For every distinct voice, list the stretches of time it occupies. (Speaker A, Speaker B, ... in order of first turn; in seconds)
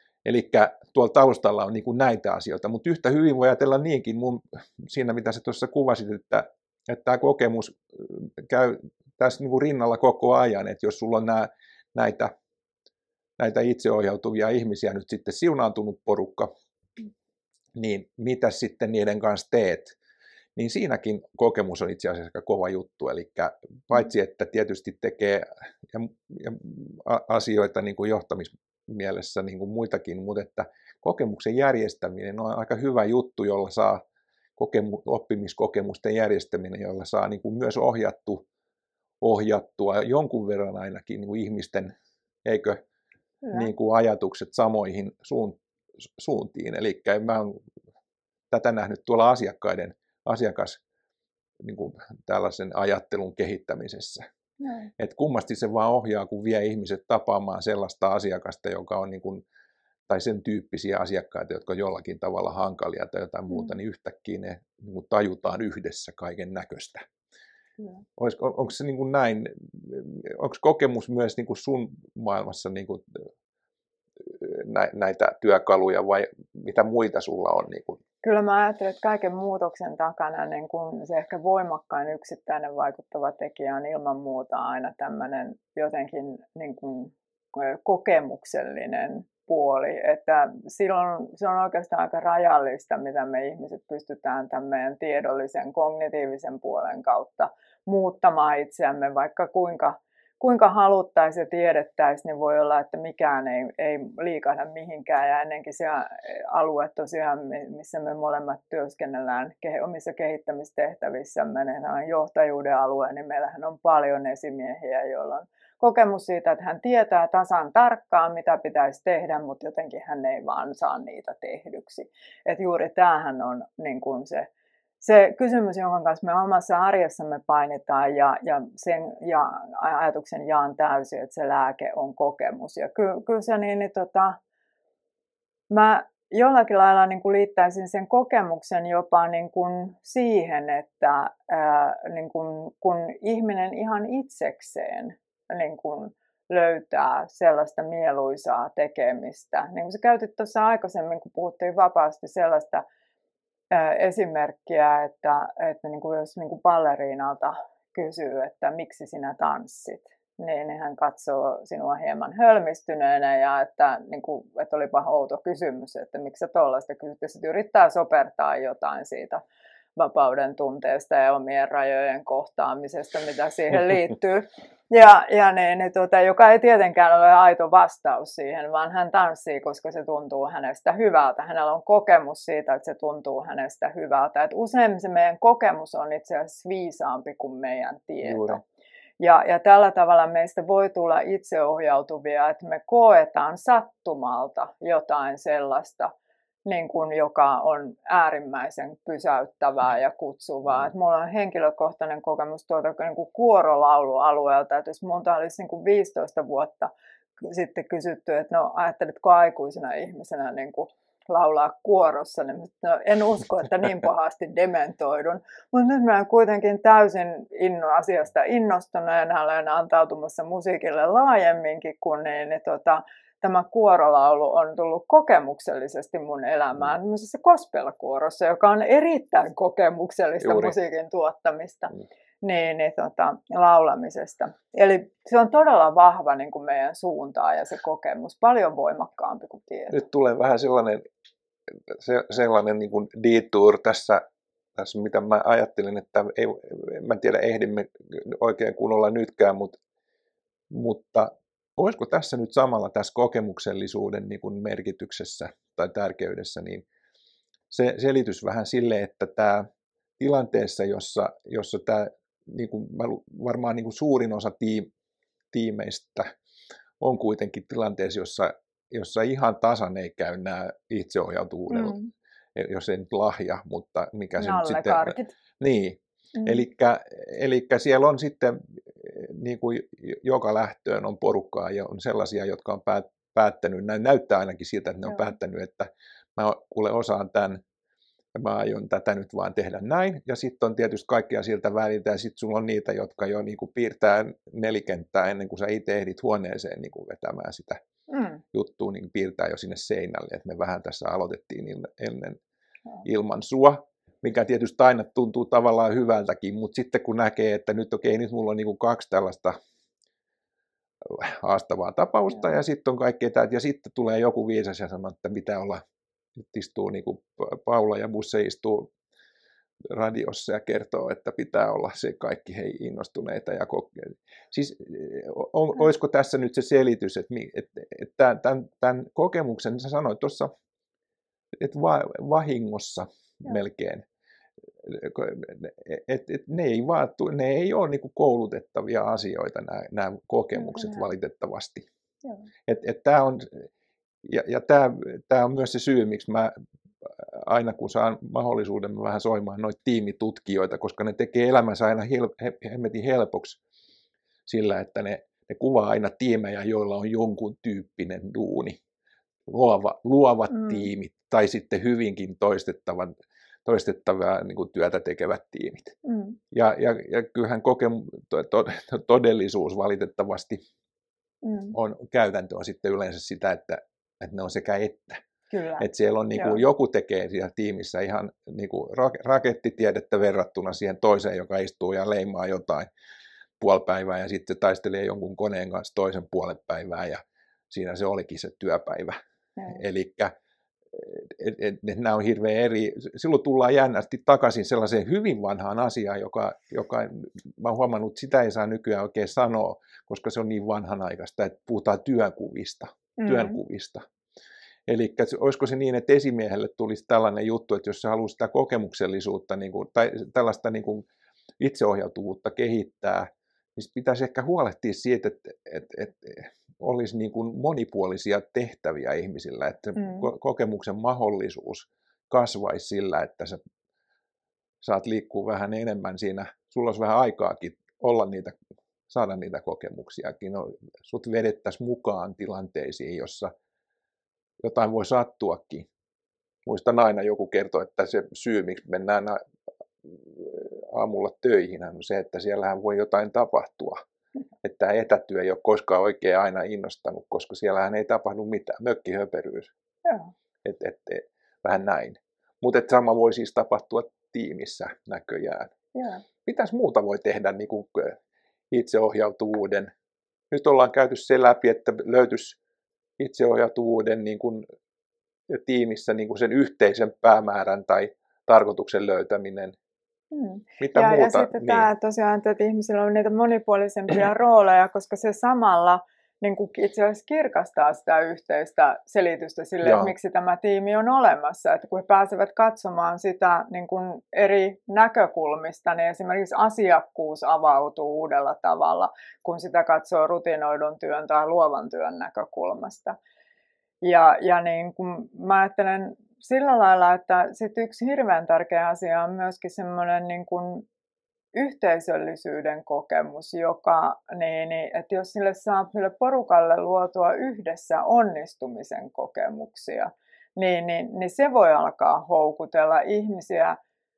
Speaker A: 0.2-12.3, 13.4-16.5, 17.7-20.0, 20.6-34.0, 34.6-38.4, 39.2-41.9, 42.4-42.8, 43.5-45.6, 46.2-47.6, 48.5-50.8, 51.6-54.2, 55.0-59.4, 60.1-67.0, 68.2-73.2, 74.2-78.0, 188.2-188.6, 230.4-230.7, 239.9-241.0, 241.9-244.2, 244.8-249.8, 250.7-256.9, 257.7-259.7, 260.2-264.9, 265.5-266.3, 267.0-272.0, 272.5-287.6, 288.3-297.8, 298.5-302.4, 303.0-309.5, 311.0-315.8, 316.4-318.9, 319.8-330.5, 331.6-334.0, 334.8-341.9, 342.6-343.7, 344.2-353.6, 354.5-358.8, 359.5-365.9, 366.5-370.6, 371.7-375.2, 375.8-382.9, 383.6-389.2, 389.7-390.3, 390.9-404.0, 404.9-411.1, 411.6-423.6, 424.8-428.6, 429.1-433.5, 434.6-435.9, 436.6-439.4, 440.0-444.0, 444.6-449.7, 450.6-455.7, 456.4-458.2, 458.7-459.9, 460.5-462.6, 463.2-464.6, 465.5-469.8, 470.8-471.9, 479.8-480.1
Speaker B: 43.4-43.7, 54.6-54.9, 78.2-124.5, 125.0-134.4, 135.7-152.8, 153.7-169.4, 169.9-188.6, 189.2-196.1, 196.6-240.0, 271.7-272.1, 274.4-275.3, 276.4-276.6, 298.1-298.4, 340.5-341.1, 360.5-360.8, 366.0-366.4, 371.4-371.8, 375.5-376.6, 389.6-389.8, 403.2-403.6, 420.0-420.2, 450.0-450.3, 455.9-456.2, 470.3-493.1, 494.0-500.8, 501.5-513.8